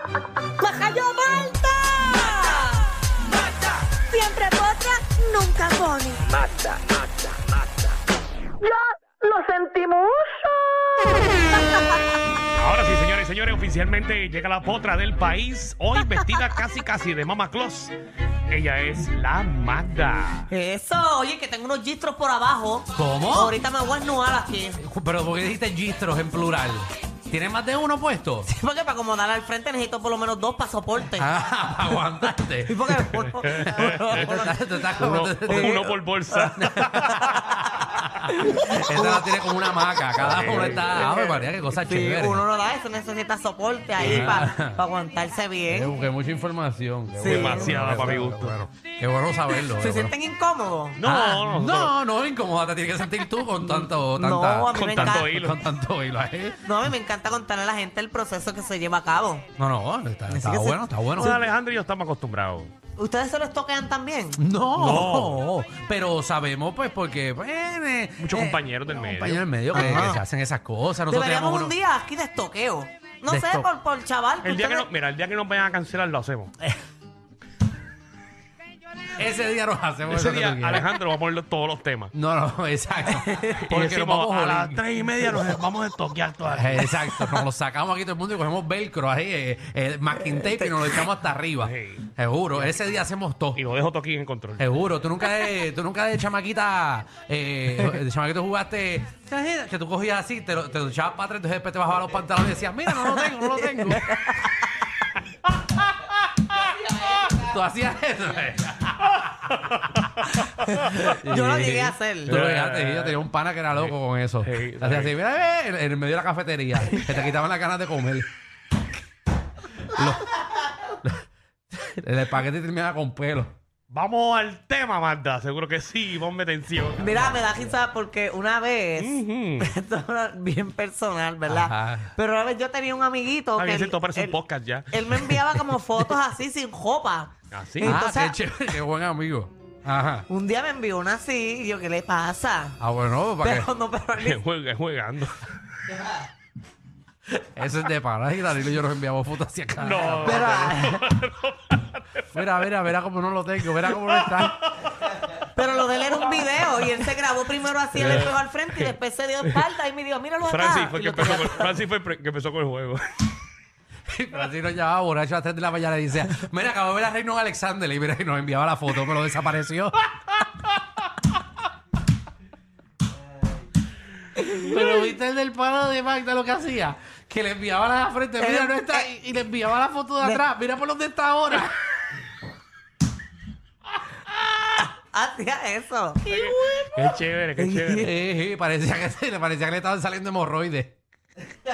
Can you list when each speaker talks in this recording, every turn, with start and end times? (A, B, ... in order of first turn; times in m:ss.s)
0:00.6-0:02.9 A
0:03.5-0:06.4 A
0:09.3-0:10.0 A
0:11.0-0:11.4 A
0:12.6-0:17.9 B
0:18.5-0:20.5 B
0:20.5-0:24.8 A
0:23.0-0:23.6 C
0:24.8-0:28.5 C
0:28.4-0:31.3 A
0:31.2-0:35.9 C
0:32.6-0:34.9 A
0:33.2-0:37.6 B
0:35.5-0:39.4 A
0:36.6-0:42.4 C
0:40.2-0:41.2 B
0:40.8-0:46.0 A
0:44.0-0:44.8 C
0:44.0-0:44.4 B
0:45.7-0:50.1 C
0:47.2-0:48.0 A
0:47.2-0:48.6 B
0:49.6-0:51.0 A
0:51.0-0:52.0 B
0:51.0-0:56.8 C
0:53.6-0:55.3 A
0:54.7-0:55.6 B
0:56.6-0:59.4 A
0:59.6-1:01.4 C
1:00.3-1:00.8 A
1:01.2-1:02.7 B
1:03.0-1:04.4 A
1:04.4-1:11.8 C
1:04.7-1:05.4 B
1:08.2-1:10.1 B
1:09.7-1:10.2 A
1:11.1-1:14.9 A
1:13.3-1:13.7 C
1:14.4-1:16.5 B
1:19.2-1:20.9 C
1:20.1-1:22.1 B
1:22.1-1:24.8 C
1:23.3-1:23.5 A
1:23.6-1:27.2 B
1:26.4-1:33.6 C
1:30.4-1:30.8 A
1:31.6-1:32.8 B
1:33.6-1:34.8 B
1:34.6-1:44.4 C
1:42.9-1:44.6 A
1:46.9-1:49.0 C
1:49.1-1:51.1 B
1:51.0-1:58.3 C
1:51.1-1:52.4 A
1:52.3-1:53.2 B
1:53.7-1:55.2 B
1:59.8-2:03.5 C
2:03.9-2:07.3 B
2:07.0-2:14.4 A
2:09.0-2:09.7 B
2:11.5-2:12.1 C
2:13.6-2:14.9 B
2:14.9-2:18.4 A
2:17.5-2:18.0 B
2:17.8-2:20.3 C
2:20.3-2:22.8 A
2:22.8-2:23.7 C
2:23.4-2:24.4 A
2:24.2-2:26.0 B
2:27.4-2:30.8 C
2:29.8-2:32.7 B
2:30.3-2:31.0 A
2:32.3-2:34.7 C
2:33.6-2:35.4 B
2:35.3-2:41.8 A
2:38.0-2:38.9 B
2:40.4-2:43.0 B
2:44.1-2:50.0 C
2:54.4-3:01.8 C
2:54.4-2:54.8 A
2:58.4-2:59.1 A
3:05.1-3:08.0 A
3:06.2-3:08.1 B
3:07.9-3:11.0 C